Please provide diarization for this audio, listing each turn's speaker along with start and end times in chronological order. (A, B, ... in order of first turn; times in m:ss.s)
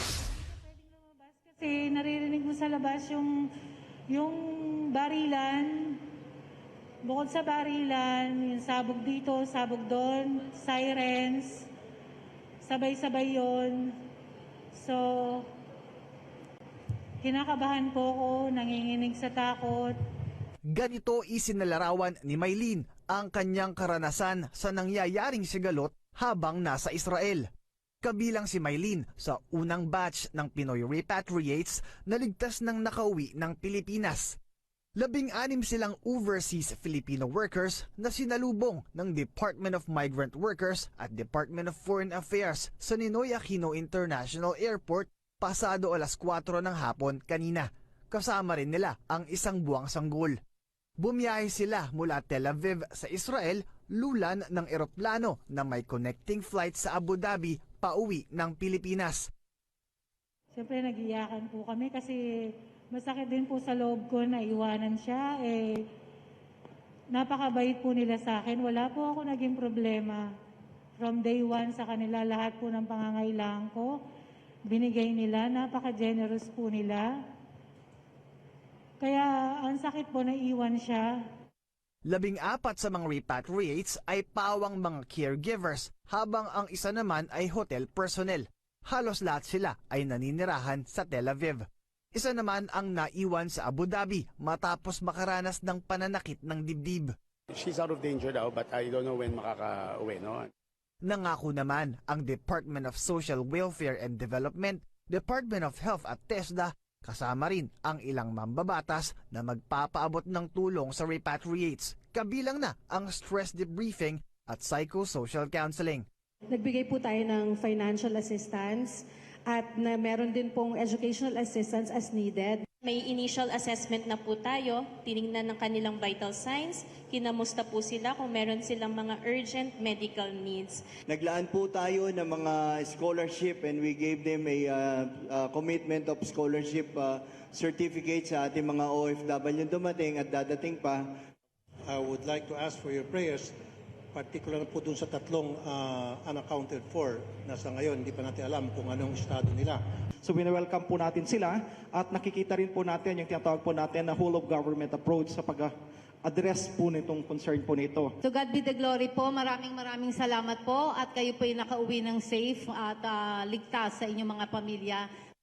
0:00.7-0:03.4 A
0:04.1-0:06.0 A
0:07.0-0:11.7 A
0:12.6-0:14.0 A
0:14.7-0:15.5 A
0:17.2-0:20.0 A
0:20.7-0:27.5 B
0:28.0-0:34.4 B
0:35.0-0:50.4 B
0:51.0-0:59.3 B
1:00.5-1:05.8 A
1:07.1-1:10.3 A
1:11.0-1:13.9 A
1:14.7-1:17.1 A
1:19.0-1:21.1 A
1:22.1-1:37.1 B
1:37.5-1:40.5 C
1:41.0-1:56.1 B
1:56.5-2:02.6 D
2:02.8-2:10.9 E
2:11.1-2:21.1 F
2:21.9-2:23.5 G
2:24.1-2:29.8 G
2:30.2-2:35.7 H
2:36.2-2:38.1 H
2:38.2-2:45.1 I